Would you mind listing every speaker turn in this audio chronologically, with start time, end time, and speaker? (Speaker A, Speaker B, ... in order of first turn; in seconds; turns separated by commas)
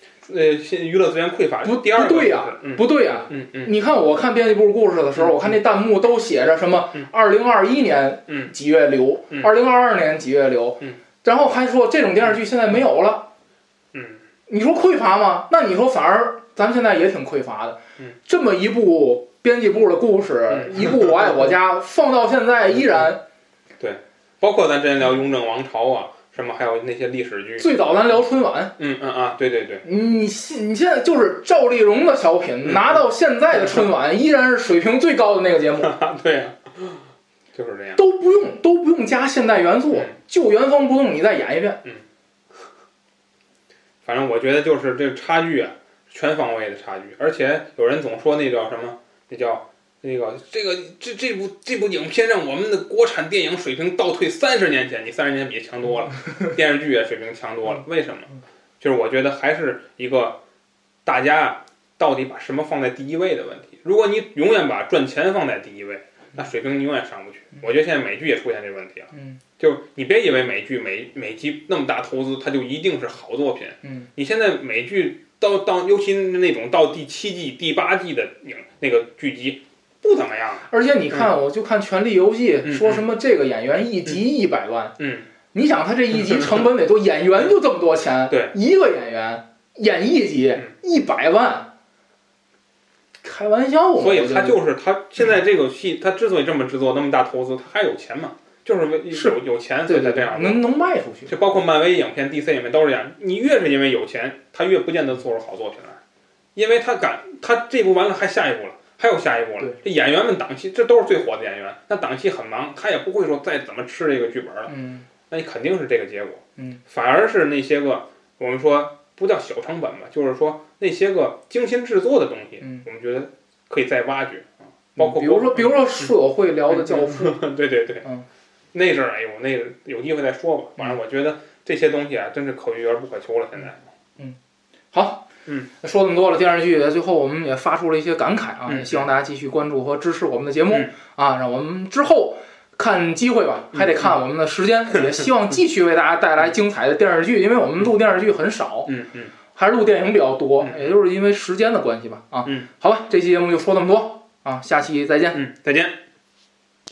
Speaker A: 0.3-3.7, Speaker B: 1.6-13.3, Speaker A: 13.9-14.2, Speaker B: 14.5-23.2, Speaker A: 20.5-21.5, Speaker A: 23.8-27.7, Speaker B: 27.6-28.7, Speaker A: 28.8-29.9, Speaker B: 29.9-35.9, Speaker A: 35.8-37.0, Speaker A: 37.5-38.0, Speaker B: 38.0-41.8, Speaker A: 44.0-58.3, Speaker A: 58.8-60.4, Speaker A: 61.0-81.3, Speaker B: 69.1-69.4, Speaker B: 80.7-85.0, Speaker A: 82.7-83.0, Speaker A: 85.0-85.3, Speaker B: 85.5-91.7, Speaker A: 88.3-88.5, Speaker B: 93.2-94.6, Speaker A: 94.0-100.6, Speaker B: 99.9-101.4, Speaker A: 101.3-106.0, Speaker A: 106.5-114.7, Speaker B: 114.7-115.1, Speaker A: 115.3-126.1, Speaker B: 125.0-127.4, Speaker A: 126.7-128.1, Speaker A: 128.7-133.8, Speaker B: 134.9-135.2, Speaker B: 135.8-148.9, Speaker A: 138.7-139.1, Speaker A: 148.9-149.3, Speaker B: 149.5-155.4, Speaker A: 150.6-150.9, Speaker A: 155.3-156.0